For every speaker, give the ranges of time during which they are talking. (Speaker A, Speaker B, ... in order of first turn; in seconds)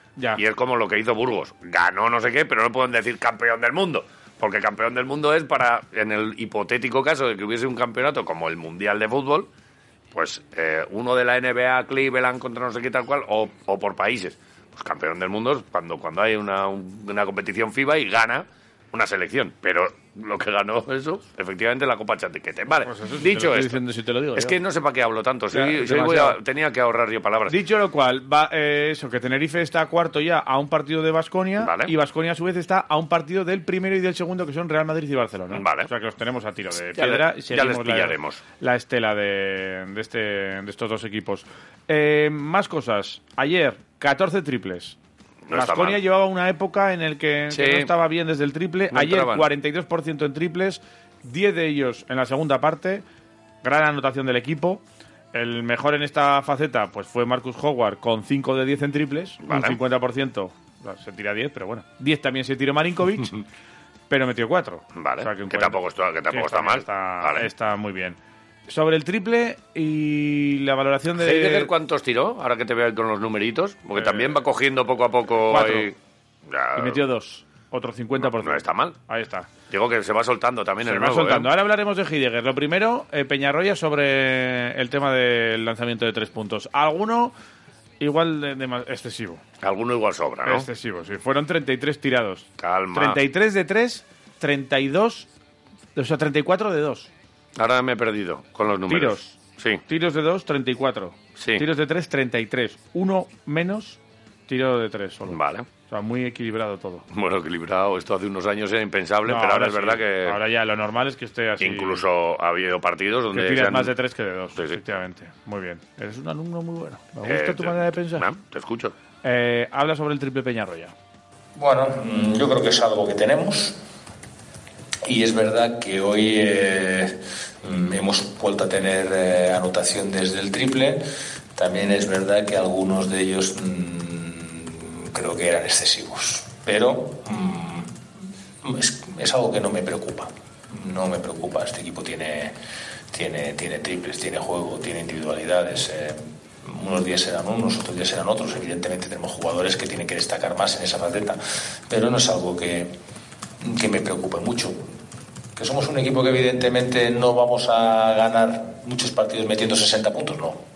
Speaker A: 0.4-9.5, 10.1-23.8, 24.4-27.6, 31.6-31.9, 35.5-35.9, 37.0-38.4, 45.5-46.0, 47.5-47.9, 48.9-49.5, 59.4-59.8, 65.0-67.5, 71.2-76.0, 76.5-77.0, 78.2-79.0, 79.7-81.5, 89.6-90.7, 92.6-93.2, 97.6-99.8, 101.4-101.7, 105.3-105.7, 107.1-110.4, 111.6-113.9, 117.2-118.9
Speaker B: 22.9-24.6, 25.5-26.4, 27.5-45.0, 45.5-53.0, 53.6-54.8, 55.3-63.3, 64.1-65.8, 66.3-68.2, 68.7-71.7, 74.0-74.4, 75.5-75.9, 76.8-79.5, 80.8-87.3, 88.0-89.4, 90.5-95.3, 96.0-97.1, 98.9-99.3, 99.9-105.4, 105.9-107.0, 109.2-112.0, 113.3-118.3, 119.2-120.9
Speaker C: 121.5-123.8, 125.0-131.0, 131.6-137.9, 138.6-142.6, 143.1-152.9, 153.6-154.8, 155.6-160.6